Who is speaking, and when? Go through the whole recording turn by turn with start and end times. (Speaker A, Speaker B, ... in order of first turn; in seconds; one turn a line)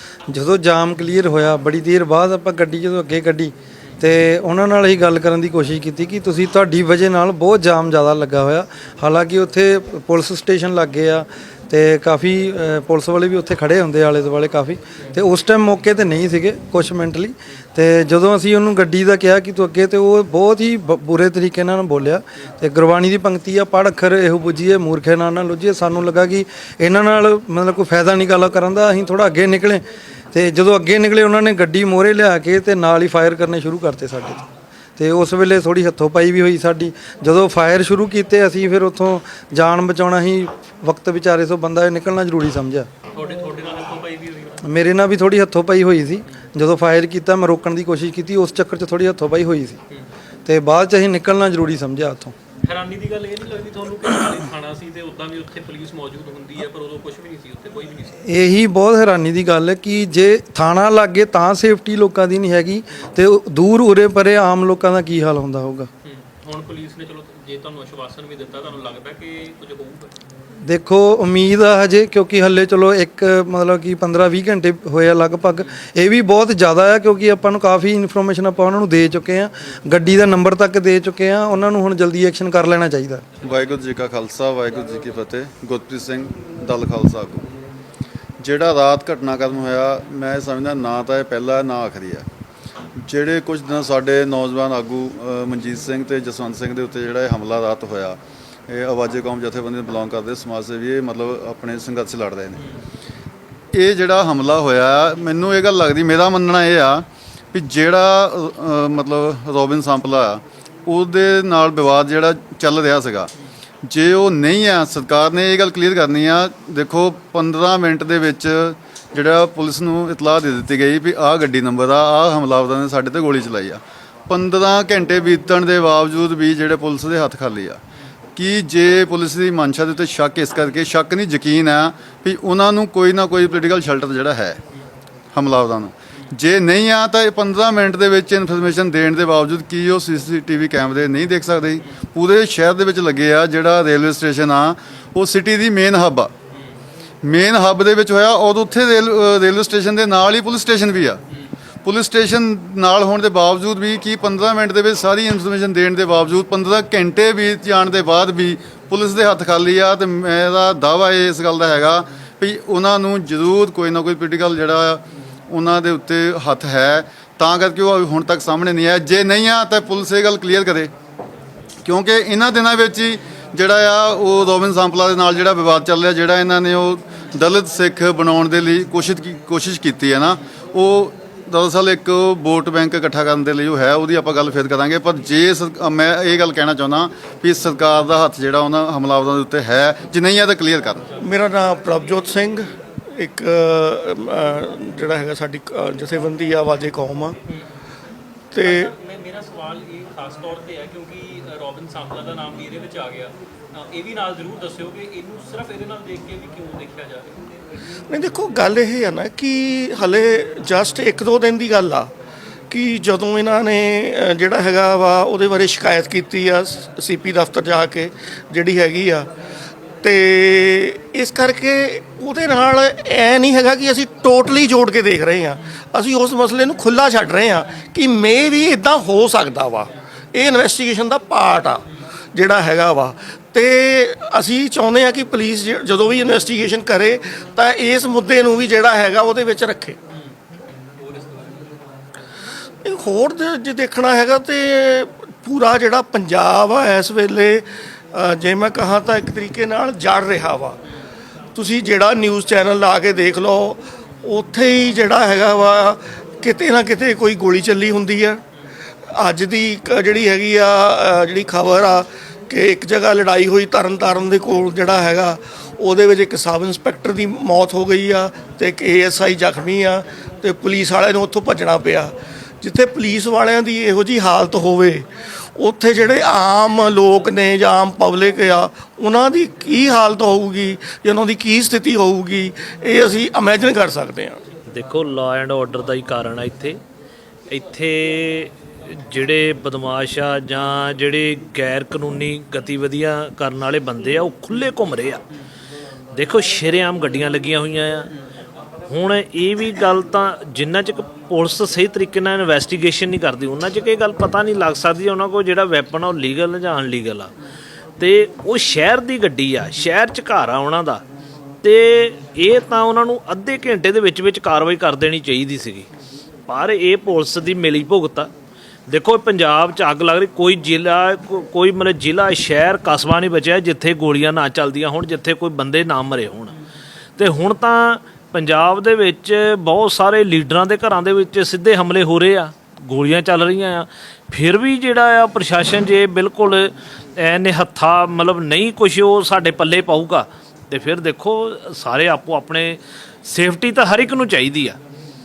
Speaker A: 0.3-34.5
Speaker A: 35.0-42.9
Speaker B: 43.1-44.6
Speaker A: 44.6-49.8
Speaker A: 50.5-52.4
Speaker B: 52.6-58.2
Speaker A: 58.2-65.9
Speaker B: 66.0-70.1
Speaker A: 70.6-83.2
Speaker C: 83.4-87.5
Speaker C: 88.4-92.3
Speaker C: 93.0-102.6
Speaker C: 103.7-113.3
Speaker C: 113.8-127.8
Speaker C: 128.4-134.6
Speaker C: 135.3-146.3
Speaker C: 147.2-151.2
Speaker C: 151.8-170.9
Speaker C: 171.8-191.0
Speaker D: 191.2-197.4
Speaker D: 198.5-198.9
Speaker B: 198.6-207.6
Speaker D: 208.1-212.1
Speaker D: 212.7-219.3
Speaker D: 220.0-231.8
Speaker D: 232.3-240.0
Speaker B: 241.0-241.7
Speaker D: 242.8-250.8
Speaker D: 251.6-258.4
Speaker D: 259.2-284.4
Speaker E: 284.7-286.8
Speaker E: 287.5-295.2
Speaker E: 296.1-298.1
Speaker E: 298.9-307.3
Speaker E: 308.0-311.0
Speaker E: 311.6-315.9
Speaker E: 316.5-318.3
Speaker E: 318.9-326.5
Speaker E: 327.2-344.8